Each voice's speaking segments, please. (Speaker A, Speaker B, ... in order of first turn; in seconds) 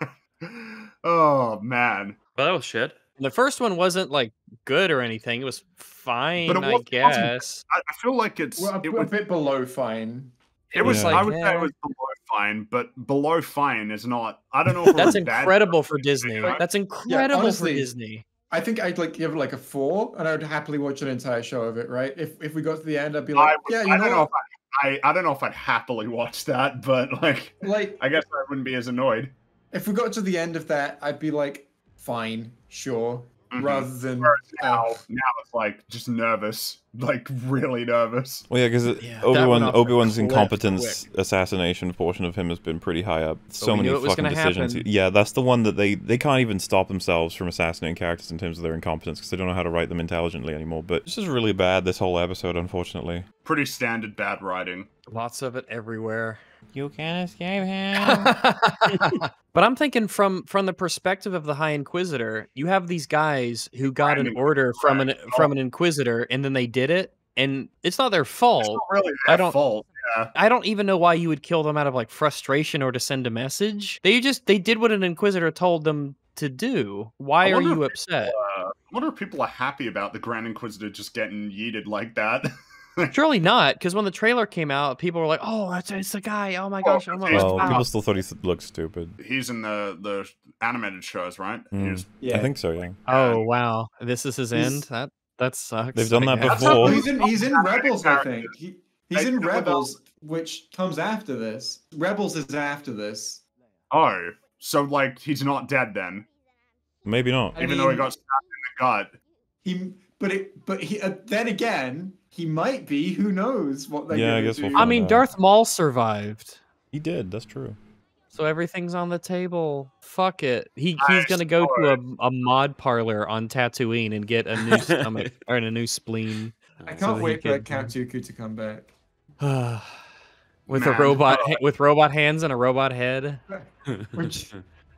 Speaker A: 0.4-2.2, 6.4-9.1, 10.7-16.6, 23.4-29.3, 33.5-38.5, 53.4-54.9, 63.8-65.5, 68.6-70.3, 77.4-83.1, 86.8-87.8, 89.2-92.1, 93.0-93.5, 96.5-98.5, 99.1-99.9, 103.9-106.3, 107.6-109.1, 121.0-122.0, 130.7-131.6
Speaker B: 2.4-3.0, 124.7-125.3, 126.8-127.6, 133.9-134.6
Speaker C: 3.2-7.6, 10.7-11.7, 14.9-18.2, 39.0-41.0, 43.6-44.9, 55.1-56.4, 57.9-69.5, 70.3-78.3, 83.1-87.9, 93.0-96.9, 114.7-116.6, 118.3-126.5, 127.0-127.6, 129.4-130.0, 130.7-133.4
Speaker D: 8.6-10.3, 17.1-17.9, 18.5-24.3, 27.6-28.0, 29.7-35.0, 92.2-92.5, 94.5-94.8, 96.5-103.4, 107.6-108.1, 109.6-115.0, 126.8-128.9, 133.5-134.5
Speaker E: 10.8-11.2, 14.7-15.2, 38.5-53.2, 56.7-58.3, 87.3-89.2, 91.7-93.0, 95.9-97.0, 107.0-107.6, 114.1-115.3, 116.9-117.8